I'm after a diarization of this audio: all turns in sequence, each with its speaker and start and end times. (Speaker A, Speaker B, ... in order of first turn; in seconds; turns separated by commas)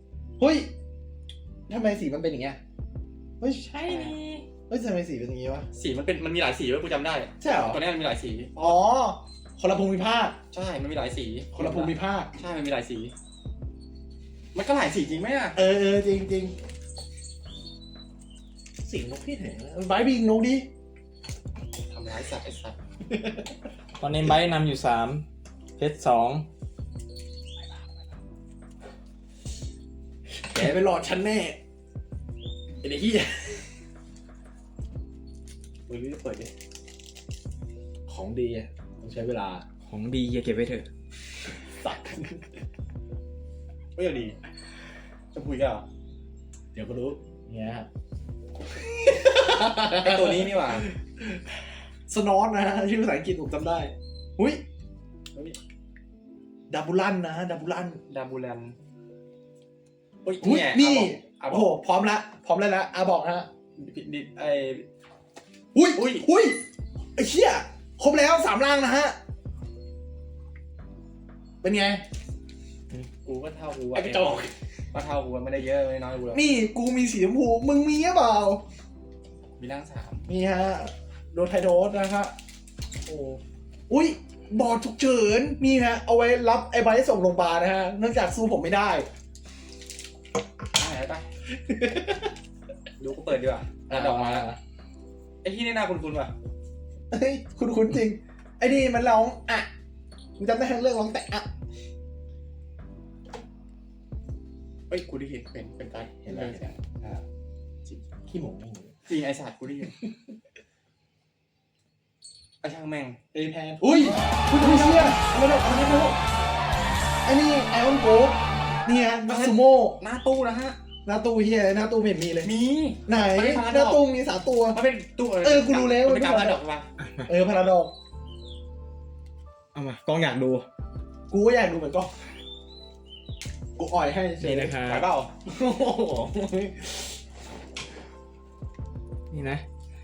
Speaker A: 0.4-0.7, Speaker A: 1.7-2.6, Speaker A: 3.4-5.7, Speaker B: 3.8-4.4, Speaker B: 5.7-8.8, Speaker A: 7.4-7.8, Speaker A: 8.6-10.4, Speaker B: 10.5-13.1, Speaker A: 11.5-12.3, Speaker B: 14.5-15.6, Speaker A: 15.5-16.5, Speaker A: 18.8-20.7, Speaker B: 21.8-22.8, Speaker A: 23.1-23.4, Speaker C: 24.0-25.2, Speaker C: 25.8-26.5, Speaker A: 30.4-31.6, Speaker A: 32.8-33.7, Speaker B: 35.9-36.5, Speaker A: 38.1-39.6, Speaker C: 39.9-40.9, Speaker A: 41.8-42.5, Speaker B: 44.0-44.4, Speaker B: 45.3-45.8, Speaker A: 46.7-47.9, Speaker A: 48.9-51.3, Speaker B: 49.8-50.9, Speaker A: 52.1-54.6, Speaker A: 56.7-58.0, Speaker B: 58.1-58.7, Speaker B: 60.2-61.7, Speaker A: 60.4-63.5, Speaker B: 63.8-64.9, Speaker A: 65.7-66.6, Speaker B: 65.9-66.3, Speaker A: 67.2-69.2, Speaker A: 71.6-72.0, Speaker B: 73.2-76.5, Speaker A: 73.9-74.5, Speaker A: 76.3-78.6, Speaker B: 79.6-80.3, Speaker A: 80.3-82.3, Speaker B: 83.1-83.4, Speaker A: 83.9-89.1, Speaker B: 90.8-91.2, Speaker A: 91.6-92.3, Speaker B: 93.0-94.5, Speaker A: 93.9-94.6, Speaker B: 95.4-96.3, Speaker A: 97.1-99.7, Speaker A: 100.4-101.5, Speaker B: 104.9-107.2, Speaker A: 106.2-106.7, Speaker A: 108.3-108.9, Speaker B: 109.0-110.0, Speaker B: 112.6-113.2, Speaker A: 113.3-116.2, Speaker B: 113.9-115.2, Speaker A: 117.2-120.0, Speaker B: 119.3-120.8, Speaker A: 121.0-122.5, Speaker B: 122.4-124.0, Speaker A: 123.0-124.8, Speaker B: 124.7-126.9, Speaker A: 125.4-126.6, Speaker A: 127.2-127.9, Speaker C: 129.7-130.7, Speaker A: 131.3-132.1, Speaker A: 133.8-134.8, Speaker C: 134.4-135.0, Speaker B: 134.8-135.3, Speaker A: 135.4-137.1, Speaker C: 139.3-139.6